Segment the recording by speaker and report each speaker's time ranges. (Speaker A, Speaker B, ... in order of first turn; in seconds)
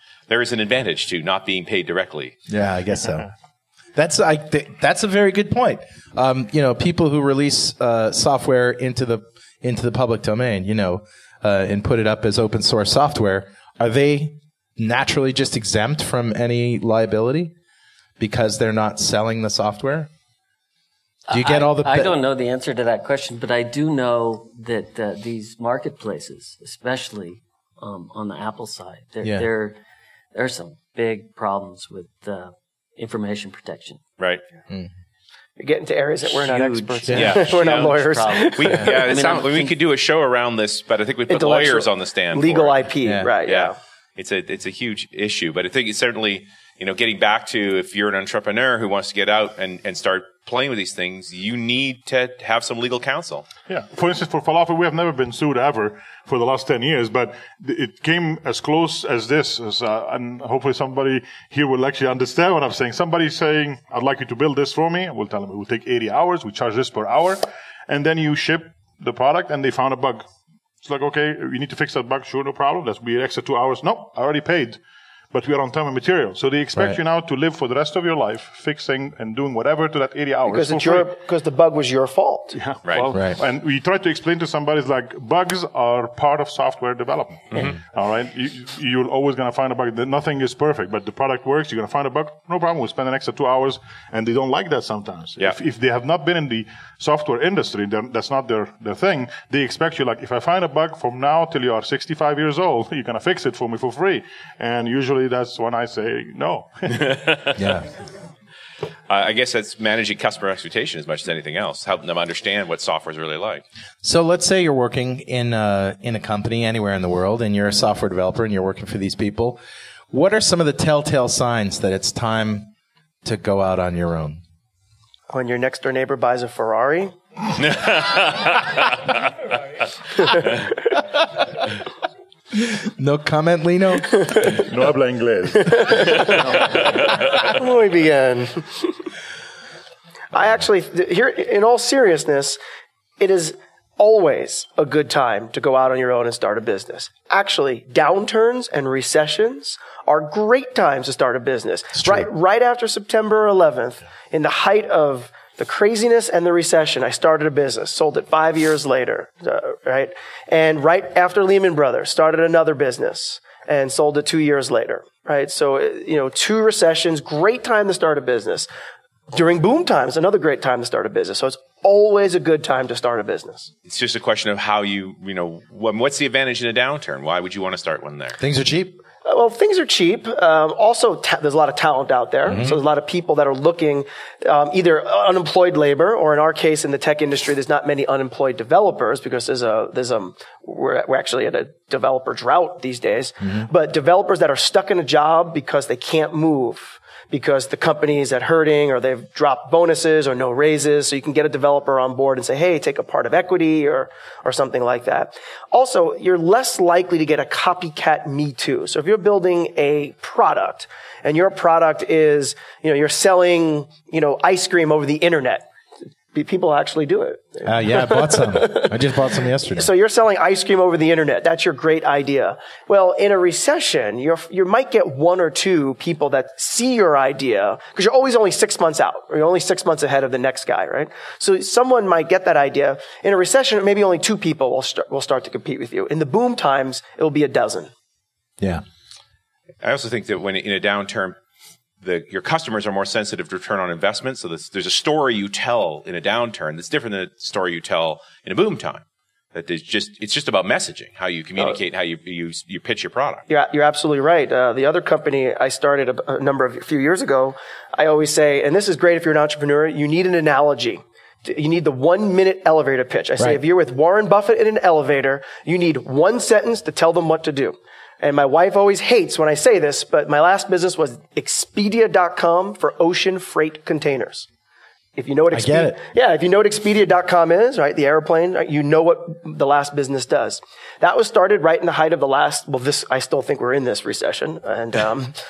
Speaker A: 0.3-2.4, 37.1-42.9, 43.4-53.5, 82.8-83.1, 87.5-87.8, 107.1-107.5, 109.1-113.6, 127.7-128.8, 173.8-178.4, 239.8-241.4, 242.0-253.4
Speaker B: 2.5-3.3, 3.9-17.5, 18.2-20.1, 21.3-22.1, 29.2-29.5, 37.1-37.3, 43.0-43.3, 107.5-107.9, 114.0-122.7, 123.2-124.4, 132.5-134.5, 151.9-152.3, 178.4-179.0, 182.4-182.8, 193.4-193.7, 217.6-219.9, 275.5-276.0
Speaker C: 21.3-29.8, 30.3-34.0, 36.2-39.7
Speaker D: 35.6-39.1, 41.3-43.8, 80.4-82.5, 125.3-127.2, 130.2-130.7, 134.1-134.6, 135.6-136.6, 137.3-139.0, 140.3-142.6, 143.2-168.7, 169.3-173.7, 179.2-215.7, 216.3-219.0, 219.8-237.9, 253.5-274.5, 275.1-285.3
Speaker E: 53.7-70.2, 70.8-74.8, 75.3-81.1, 82.5-107.2, 134.6-136.8